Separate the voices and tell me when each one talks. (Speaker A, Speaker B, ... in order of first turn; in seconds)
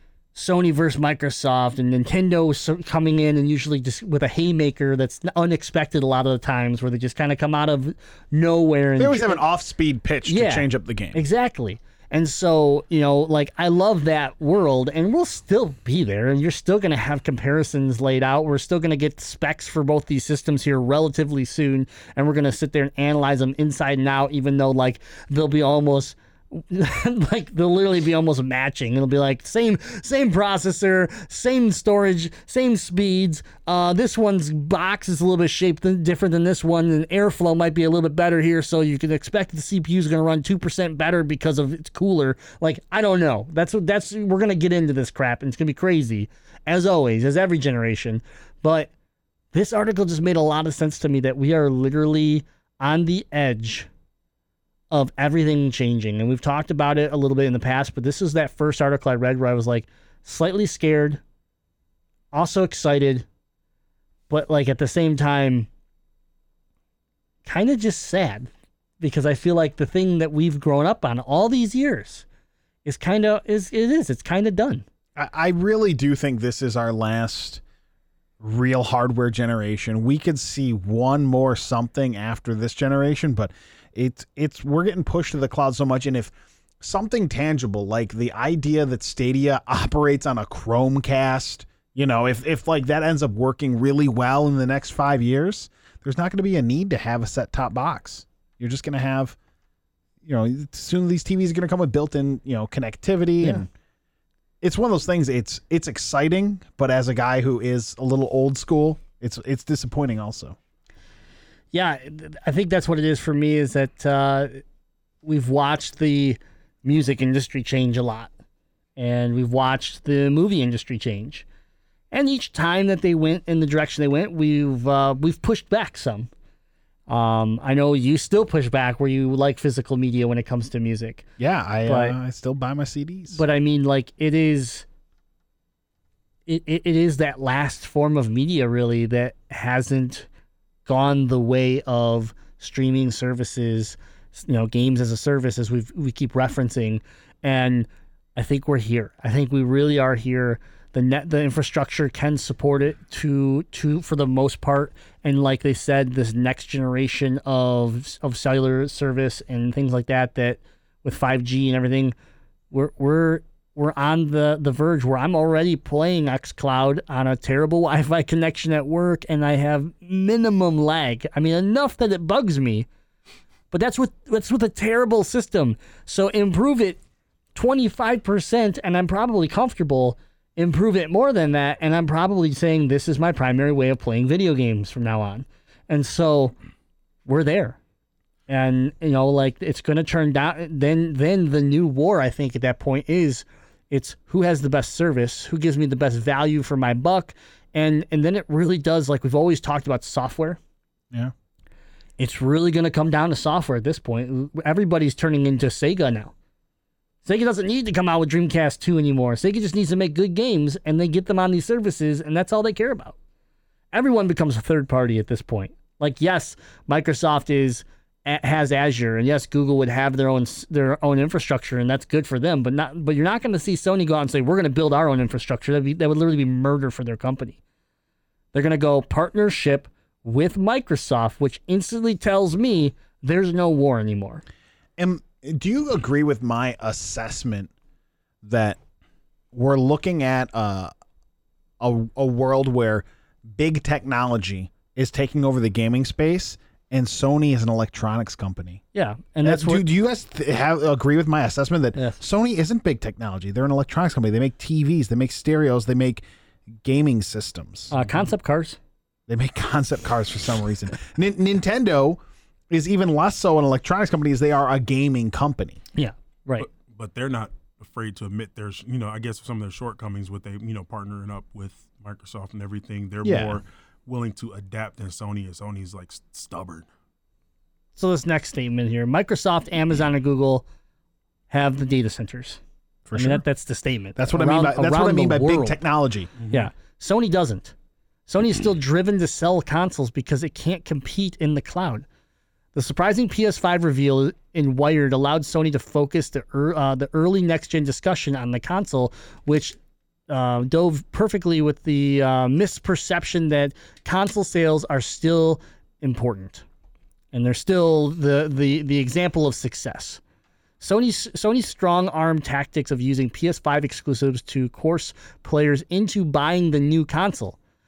Speaker A: 0.3-9.4, 10.3-48.9, 49.5-53.9, 54.9-61.2, 62.3-63.3, 64.3-65.7, 67.5-72.2, 72.8-74.8, 111.7-114.6, 115.2-118.3, 119.0-121.5, 122.1-126.3, 127.1-131.3, 131.9-132.2, 133.3-134.8, 136.5-140.3, 140.9-162.2, 162.7-172.9, 173.7-177.0, 177.6-186.5, 187.3-187.8, 188.5-200.6, 202.2-206.3, 207.2-213.2, 213.9-227.6, 228.5-234.4, 248.9-249.9, 257.9-258.8, 266.0-266.7, 278.0-280.7, 281.5-282.6, 283.1-285.8, 286.5-287.7, 288.3-292.1, 292.8-299.8, 300.3-306.6, 307.3-310.2, 310.8-317.6
Speaker B: 9.0-11.2, 75.2-77.6, 78.4-99.4, 100.2-103.7, 104.6-110.6, 131.4-133.4, 235.0-237.7, 238.4-238.8, 239.5-240.9, 241.8-248.8, 249.4-256.2, 256.8-258.1, 259.3-265.8, 273.2-273.6, 283.1-283.4, 284.2-286.3
Speaker C: 266.6-276.9, 286.4-286.7